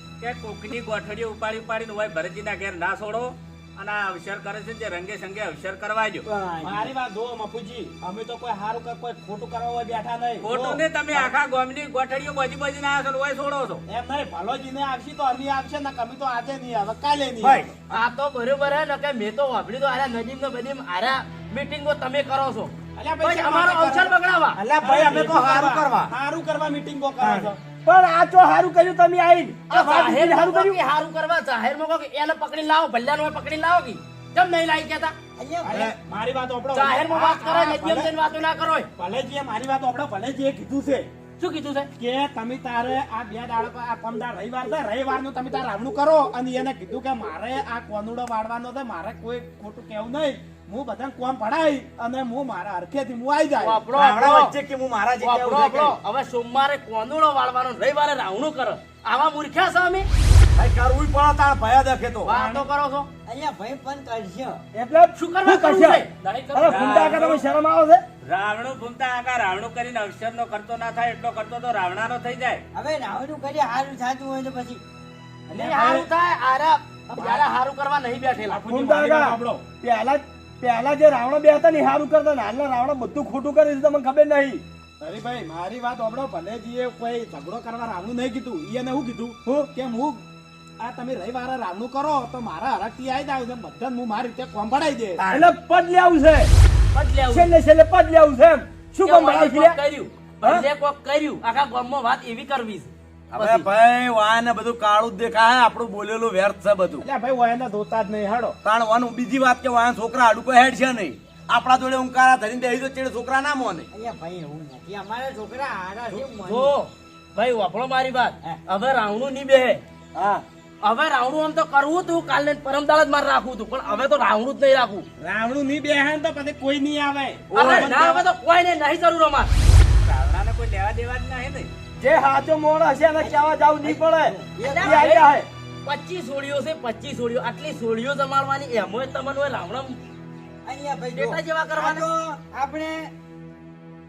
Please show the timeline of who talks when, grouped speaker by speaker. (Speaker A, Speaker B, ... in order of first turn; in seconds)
Speaker A: 0.2-6.3, 10.4-13.8, 66.2-67.5, 68.2-72.6, 130.0-131.7
Speaker B: 6.3-6.9, 35.4-35.9, 63.3-64.6, 72.7-74.8, 113.9-116.7, 133.2-135.1, 140.7-143.1
Speaker C: 6.6-11.3, 13.9-17.7, 23.0-24.1, 24.8-27.6, 35.6-38.1, 39.0-41.1, 42.0-53.9, 75.5-76.1, 78.5-79.7, 85.0-90.2, 90.8-95.5, 107.0-108.6, 125.2-128.2
Speaker D: 17.4-17.7, 24.6-26.1, 27.2-27.5, 53.9-56.0, 60.6-62.3, 103.3-107.0, 108.6-113.9
Speaker E: 17.9-24.6, 29.7-35.1, 36.7-38.9, 41.4-41.9, 53.6-54.5, 55.2-60.1, 62.2-63.1, 65.2-67.0, 75.5-78.6, 96.9-97.5, 99.0-103.7, 116.4-119.8, 120.8-125.1, 127.5-129.5, 134.6-135.3, 135.8-140.0, 141.1-142.1
Speaker F: 27.7-30.8, 64.7-68.0, 78.7-84.6, 95.2-96.5, 97.3-99.8, 127.5-127.9, 132.0-135.5